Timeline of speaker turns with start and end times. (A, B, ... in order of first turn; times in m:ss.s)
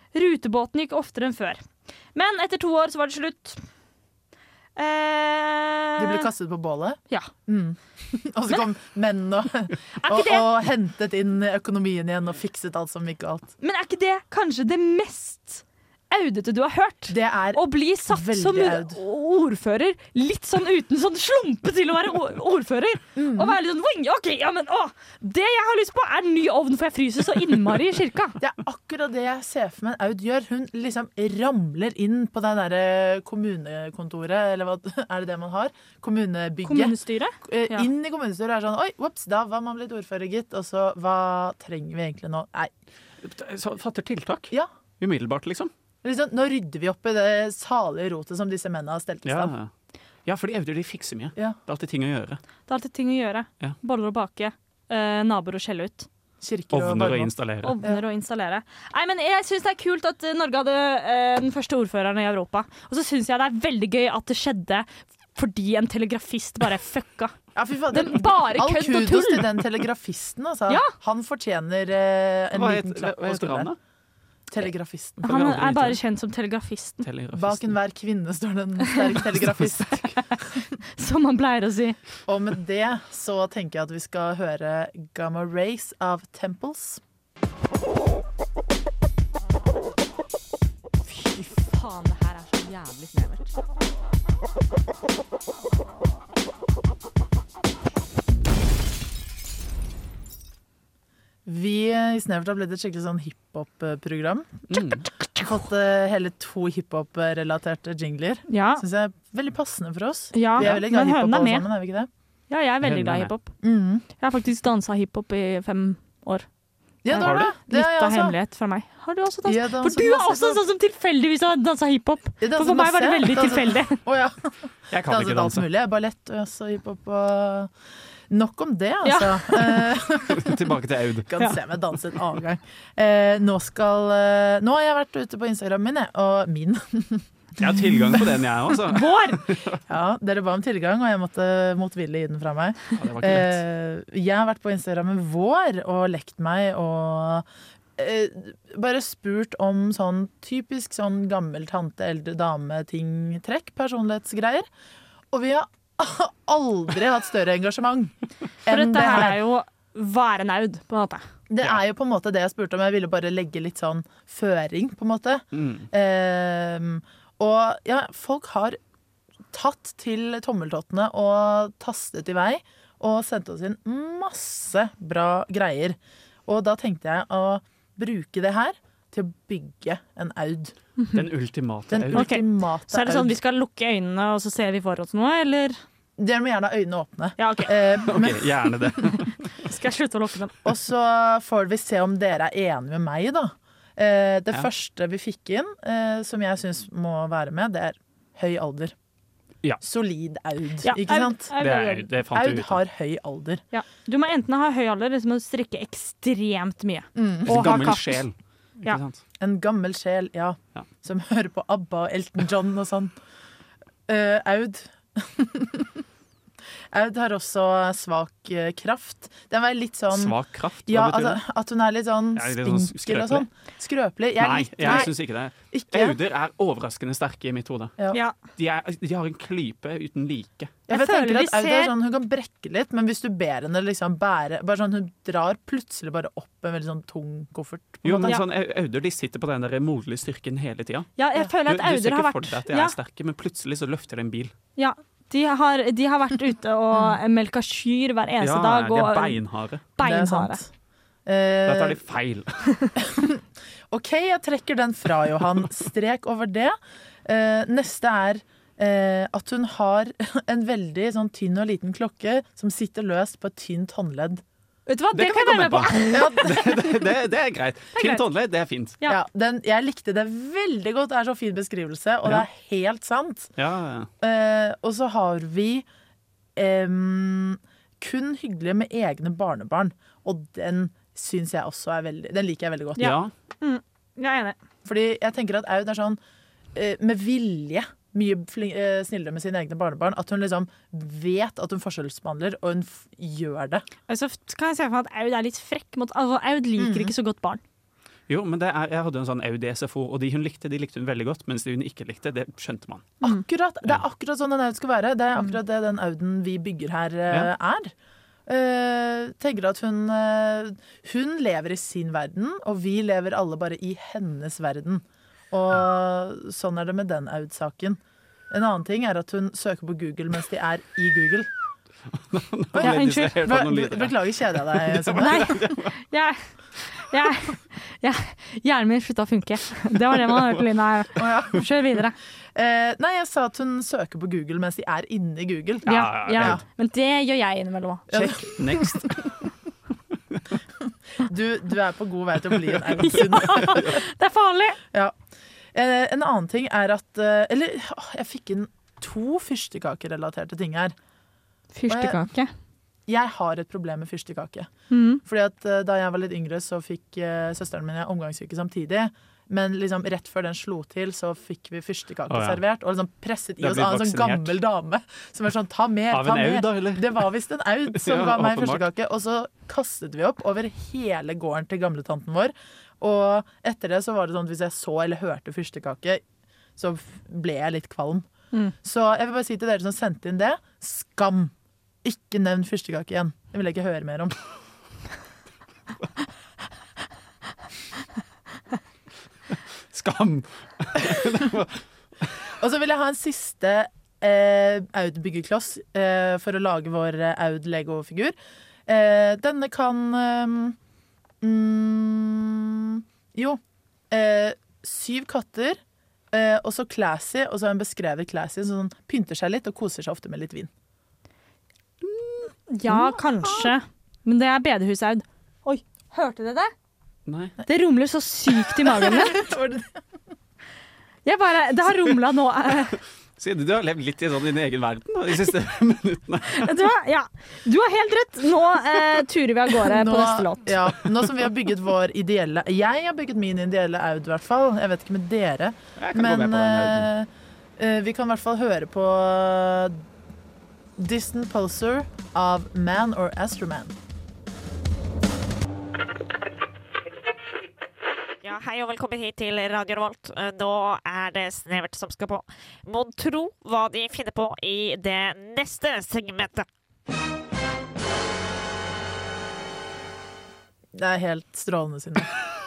0:00.1-0:01.6 A
0:02.2-0:03.6 A
0:04.8-0:06.3 A
0:06.0-0:13.5 B
0:10.0-0:10.5 A
0:13.6-0:28.4 A
0:17.1-0:19.0 B
0:23.2-0:23.6 B
0:28.4-0:42.7 B
0:36.6-0:37.9 A
0:43.2-0:45.7 C
0:46.0-0:49.5 B
0:49.2-0:49.7 C
0:50.3-0:52.4 C
0:52.7-0:56.1 A
0:56.4-0:58.0 B
0:56.7-0:57.8 C
0:57.6-1:07.3 A
1:07.6-1:13.7 B
1:07.9-1:09.6 A
1:10.7-1:10.9 A
1:12.6-1:13.8 C
1:14.5-1:15.4 B
1:15.2-1:16.0 C
1:15.2-1:17.1 A
1:17.0-1:17.8 C
1:17.3-1:20.6 B
1:20.1-1:20.4 A
1:21.0-1:22.0 A
1:22.3-1:27.0 B
1:31.0-1:33.5 A
1:41.4-1:44.8 B
1:44.7-1:45.1 C
1:45.4-1:52.1 B
1:48.5-1:48.8 A
1:50.3-1:51.7 A
1:52.5-1:53.5 A
1:52.8-1:53.3 C
1:53.6-1:54.0 B
1:54.2-1:56.5 A
1:57.0-1:58.4 B
1:57.1-2:04.0 A
1:57.2-1:57.5 C
1:59.5-2:00.6 B
2:02.4-2:07.7 B
2:04.9-2:05.6 C
2:08.3-2:10.7 B
2:09.0-2:09.9 A
2:10.3-2:11.3 C
2:11.3-2:18.4 B
2:17.6-2:19.8 C
2:18.9-2:19.4 A
2:19.9-2:34.7 B
2:23.0-2:23.6 C
2:35.3-2:39.4 B
2:38.7-2:41.2 A
2:41.5-2:48.8 B
2:45.5-2:45.9 C
2:49.5-3:00.8 B
3:01.1-3:02.3 C
3:01.9-3:03.4 B
3:02.1-3:05.8 A
3:06.2-3:09.0 B
3:07.4-3:08.0 A
3:08.1-3:09.5 C
3:09.6-3:10.6 A
3:10.6-3:18.9 B
3:19.8-3:21.5 B
3:20.8-3:22.1 A
3:21.6-3:22.8 C
3:22.3-3:23.6 B
3:23.7-3:28.2 A
3:27.2-3:28.0 B
3:27.5-3:29.2 C
3:29.4-3:33.1 B
3:34.1-3:36.0 B
3:36.9-3:40.4 B
3:40.1-3:41.4 C
3:40.9-3:45.1 B
3:42.4-3:43.5 C
3:44.4-3:48.0 C
3:45.7-3:46.2 B
3:48.6-3:50.8 C
3:50.9-3:58.4 B
3:50.9-3:51.9 A
3:58.0-4:01.1 C
4:01.2-4:03.0 A
4:01.6-4:04.5 C
4:04.8-4:09.4 A
4:08.4-4:09.8 C
4:10.0-4:10.6 A
4:10.0-4:10.7 B
4:11.3-4:12.0 B
4:11.7-4:12.7 C
4:13.0-4:24.4 B
4:24.9-4:26.5 A
4:25.1-4:29.0 C
4:26.1-4:26.8 B
4:27.9-4:28.2 A
4:29.1-4:33.5 B
4:33.6-4:34.1 C
4:34.2-4:35.9 B
4:36.6-4:43.2 B
4:43.0-4:44.6 A
4:43.0-4:43.3 C
4:44.8-4:46.2 B
4:46.8-4:53.8 B
4:54.1-4:57.6 A
4:56.8-4:57.1 B
4:58.3-5:03.1 C
5:03.2-5:07.9 B
5:08.5-5:21.5 B
5:22.3-5:25.9 C
5:22.8-5:25.7 B
5:22.8-5:23.4 A
5:25.2-5:32.2 A
5:31.2-5:31.6 B
5:32.6-5:36.6 B
5:35.9-5:36.6 C
5:35.9-5:38.2 A
5:38.1-5:39.2 B
5:38.1-5:39.3 C
5:41.2-5:44.0 B
5:43.0-5:44.8 A
5:45.7-5:51.0 B
5:51.7-5:52.5 A
5:51.9-5:52.2 B
5:53.1-5:54.7 B
5:54.9-5:55.2 A
5:55.2-6:16.2 B
6:02.3-6:02.6 C
6:03.6-6:04.6 C
6:06.1-6:07.2 C
6:07.9-6:08.8 C
6:16.8-6:18.3 B
6:18.8-6:21.5 B
6:22.0-6:24.4 B
6:29.9-6:32.4 C
6:32.5-6:38.4 B
6:38.9-6:40.8 B
6:41.4-6:43.6 B
6:44.1-6:45.8 B
6:46.3-6:50.7 B
6:52.0-6:53.7 C
6:52.7-6:56.7 A
6:57.3-6:57.6 C
6:57.7-6:59.5 A
6:58.9-6:59.9 B
7:01.2-7:03.0 A
7:03.4-7:06.7 C
7:06.5-7:10.7 A
7:09.8-7:20.0 B
7:16.0-7:17.1 C
7:21.0-7:24.0 B
7:28.4-7:36.7 D
7:40.9-7:42.3 B